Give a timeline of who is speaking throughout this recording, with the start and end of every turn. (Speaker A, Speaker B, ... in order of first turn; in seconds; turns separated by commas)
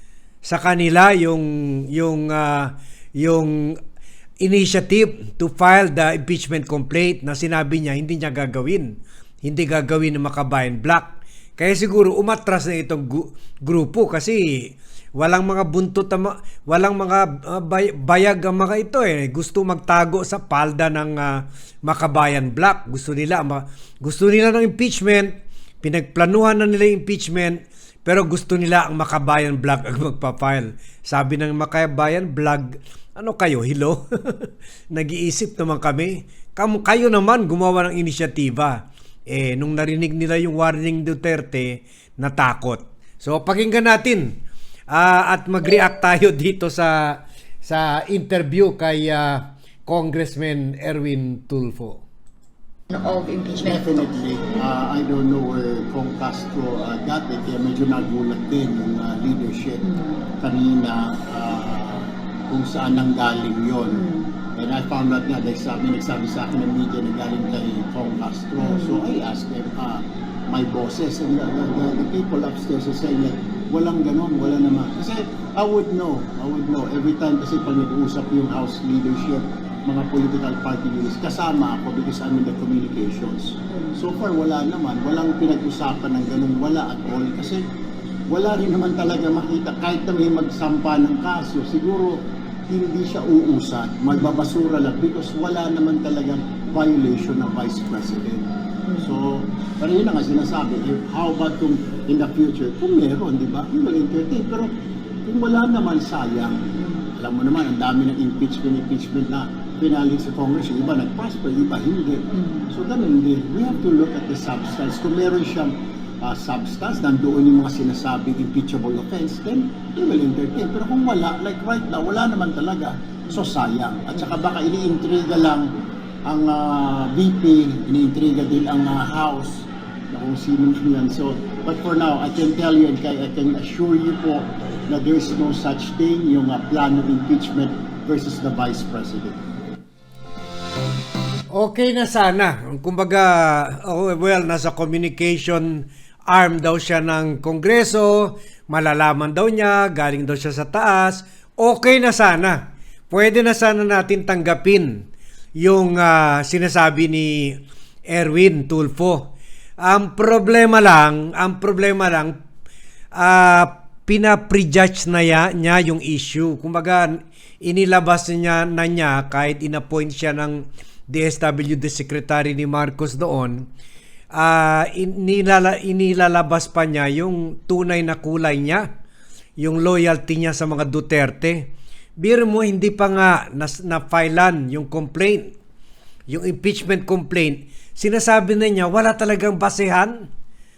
Speaker A: 0.4-3.8, Speaker A: 4.4-52.0, Speaker B: 52.9-54.1, Speaker C: 53.6-59.9, Speaker B: 59.8-60.2, Speaker C: 60.4-64.0, Speaker B: 63.9-64.3, Speaker C: 64.5-87.6, Speaker B: 68.6-69.0, Speaker B: 83.7-84.0, Speaker C: 88.3-98.5, Speaker B: 94.1-94.4, Speaker B: 98.9-99.2, Speaker C: 99.0-104.7, Speaker C: 105.2-125.7, Speaker B: 106.8-107.1, Speaker B: 112.3-112.7, Speaker C: 126.3-139.4, Speaker A: 141.5-162.4, Speaker A: 163.2-173.7, Speaker A: 174.3-178.9, Speaker A: 179.6-185.5, Speaker A: 186.3-190.3